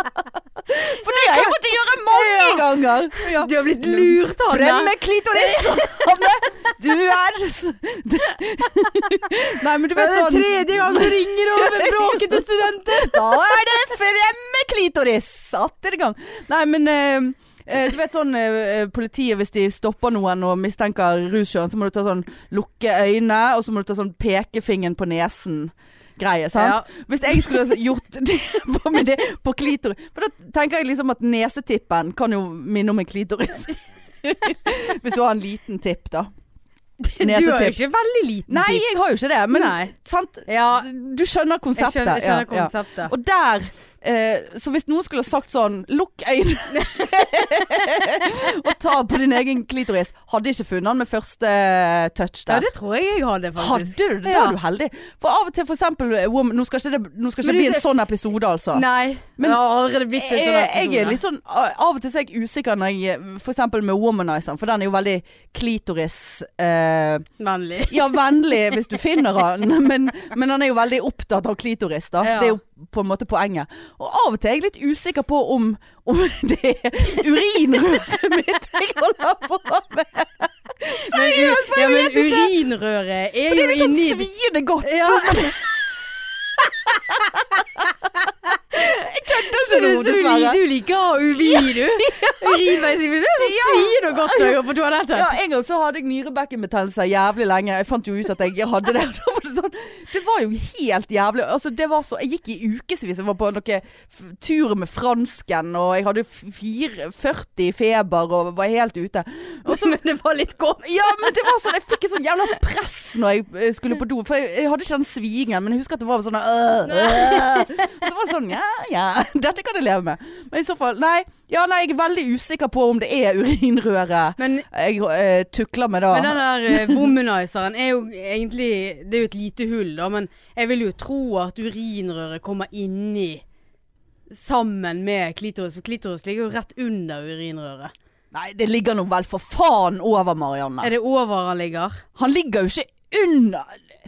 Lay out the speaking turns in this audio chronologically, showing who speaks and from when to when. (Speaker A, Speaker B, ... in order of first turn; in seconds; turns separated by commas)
Speaker A: 0.7-36.3, Speaker B: 0.8-6.7, Speaker B: 9.9-13.7, Speaker B: 26.6-26.9, Speaker B: 37.0-38.8, Speaker A: 37.2-37.8, Speaker A: 38.5-52.7, Speaker B: 39.5-39.9, Speaker B: 40.5-40.9, Speaker B: 41.8-43.1, Speaker B: 52.5-54.6, Speaker A: 53.6-58.9, Speaker B: 57.4-57.9, Speaker B: 58.7-61.2, Speaker A: 60.1-67.3, Speaker B: 67.4-68.1, Speaker A: 67.9-82.5, Speaker B: 72.2-72.6, Speaker B: 80.9-84.3, Speaker A: 83.5-85.6, Speaker B: 84.8-85.6, Speaker A: 86.9-87.6, Speaker A: 88.7-90.6, Speaker B: 89.5-95.3, Speaker A: 91.4-92.7, Speaker A: 93.4-94.5, Speaker A: 95.1-110.0, Speaker B: 109.7-111.5, Speaker A: 110.8-127.1, Speaker B: 116.9-117.9, Speaker B: 124.4-124.7, Speaker B: 126.1-133.4, Speaker B: 134.3-137.9, Speaker A: 138.3-140.9, Speaker B: 140.8-142.0, Speaker A: 142.2-143.8